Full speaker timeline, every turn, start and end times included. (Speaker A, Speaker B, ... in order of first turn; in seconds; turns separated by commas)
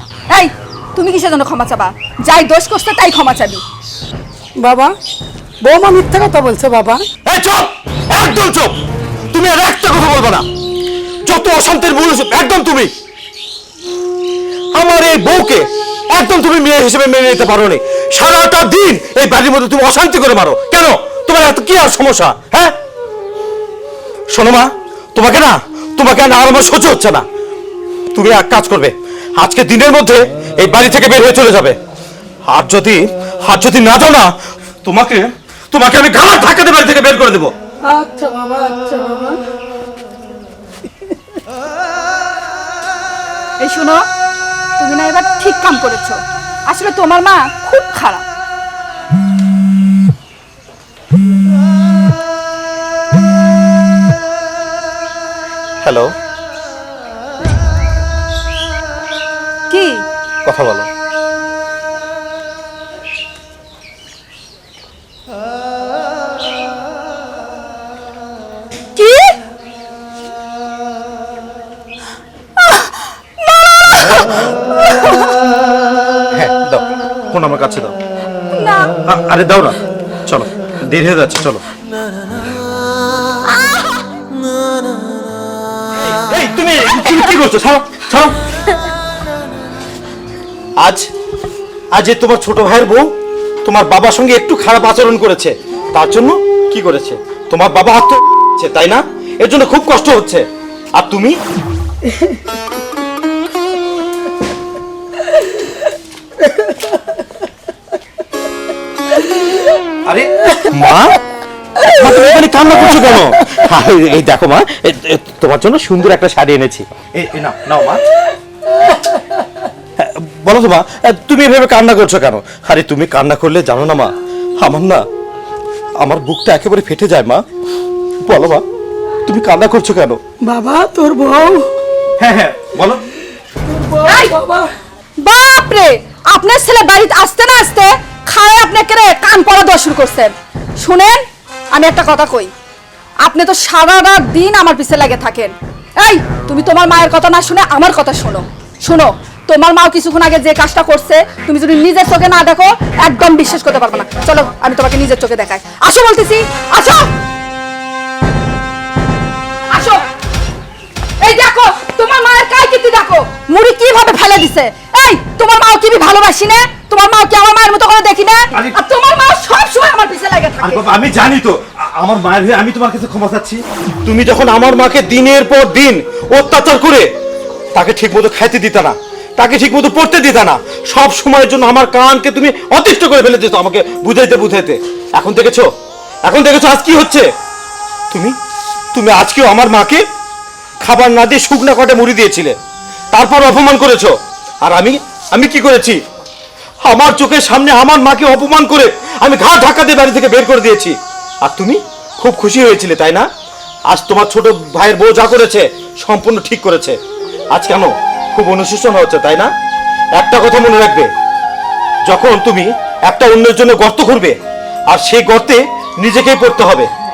Speaker A: 0.3-3.6, Speaker B: 4.6-4.9, Speaker B: 5.6-7.0, Speaker C: 7.2-8.8, Speaker C: 9.3-10.5, Speaker C: 11.2-12.9, Speaker C: 14.7-22.8, Speaker C: 24.3-27.2, Speaker C: 28.1-31.8, Speaker C: 32.5-34.3, Speaker C: 34.8-37.5, Speaker B: 37.8-39.4, Speaker A: 43.6-44.0, Speaker A: 44.8-48.2, Speaker C: 55.8-56.1, Speaker A: 59.7-60.0, Speaker C: 60.5-60.9, Speaker A: 69.0-69.4, Speaker A: 72.6-75.3, Speaker C: 76.3-77.9, Speaker A: 78.6-79.0, Speaker C: 79.0-81.6, Speaker A: 83.5-84.0, Speaker C: 86.0-88.4, Speaker C: 90.8-91.1, Speaker C: 91.9-93.1, Speaker C: 93.6-101.4, Speaker C: 110.1-111.2, Speaker C: 111.8-118.0, Speaker C: 120.0-125.0, Speaker C: 126.0-127.4, Speaker C: 128.2-128.6, Speaker C: 129.2-130.2, Speaker B: 130.4-131.7, Speaker C: 132.2-133.0, Speaker B: 133.7-134.7, Speaker A: 134.0-134.3, Speaker A: 135.2-141.2, Speaker A: 141.7-142.5, Speaker A: 143.2-157.1, Speaker A: 159.7-160.0, Speaker A: 161.2-170.9, Speaker C: 170.6-177.1, Speaker C: 177.7-185.7, Speaker C: 186.3-187.2, Speaker C: 188.9-190.0, Speaker C: 190.8-192.6, Speaker C: 193.1-196.0, Speaker C: 196.8-203.3, Speaker C: 203.9-207.0, Speaker C: 207.5-209.5, Speaker C: 210.2-211.1, Speaker C: 212.1-214.4, Speaker C: 214.9-216.9